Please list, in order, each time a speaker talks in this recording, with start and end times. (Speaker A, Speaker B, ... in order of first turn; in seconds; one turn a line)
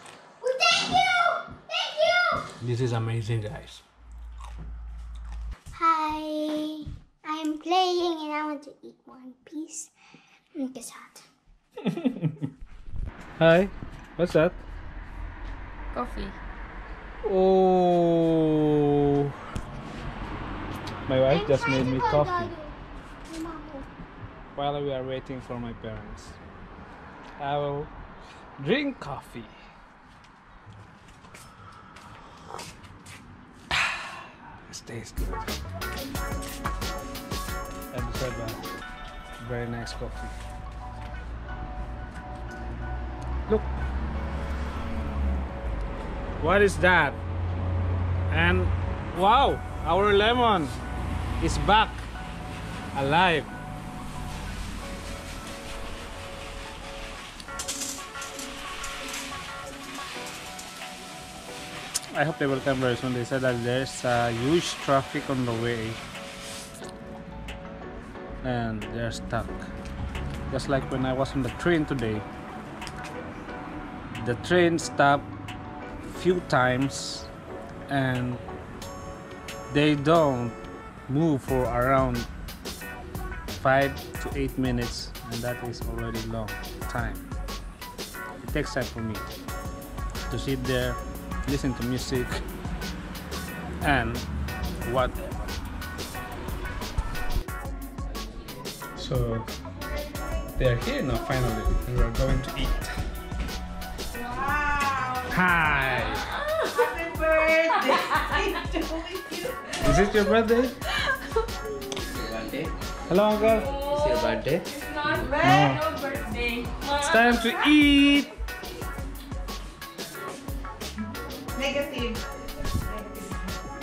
Speaker A: 0.4-2.5
Speaker B: 2.6-3.8
Speaker A: 5.7-9.9
Speaker A: 10.6-11.2
Speaker B: 13.4-14.6
Speaker C: 15.9-16.4
Speaker B: 17.2-19.4
Speaker B: 21.1-22.5
Speaker A: 21.2-23.9
Speaker B: 24.6-26.4
Speaker B: 27.4-27.9
Speaker B: 28.6-29.6
Speaker B: 33.7-35.5
Speaker B: 37.9-38.6
Speaker B: 39.4-40.4
Speaker B: 43.5-43.8
Speaker B: 46.4-47.2
Speaker B: 48.3-50.8
Speaker B: 51.4-52.1
Speaker B: 52.9-53.5
Speaker B: 62.1-66.0
Speaker B: 68.4-69.7
Speaker B: 70.5-72.3
Speaker B: 74.2-75.3
Speaker B: 76.0-77.3
Speaker B: 77.9-78.4
Speaker B: 79.7-82.3
Speaker B: 83.5-87.3
Speaker B: 88.4-89.2
Speaker B: 90.3-92.4
Speaker B: 93.8-94.3
Speaker B: 94.8-95.5
Speaker B: 99.0-99.5
Speaker B: 100.6-103.0
Speaker D: 104.4-105.2
Speaker B: 105.3-106.3
Speaker C: 106.2-108.5
Speaker D: 107.0-108.0
Speaker D: 108.6-109.5
Speaker B: 109.8-110.8
Speaker E: 112.0-112.8
Speaker B: 113.1-113.7
Speaker E: 113.4-115.4
Speaker C: 113.4-117.6
Speaker B: 115.4-115.8
Speaker B: 117.0-118.3
Speaker D: 121.6-122.2
Speaker D: 123.0-123.3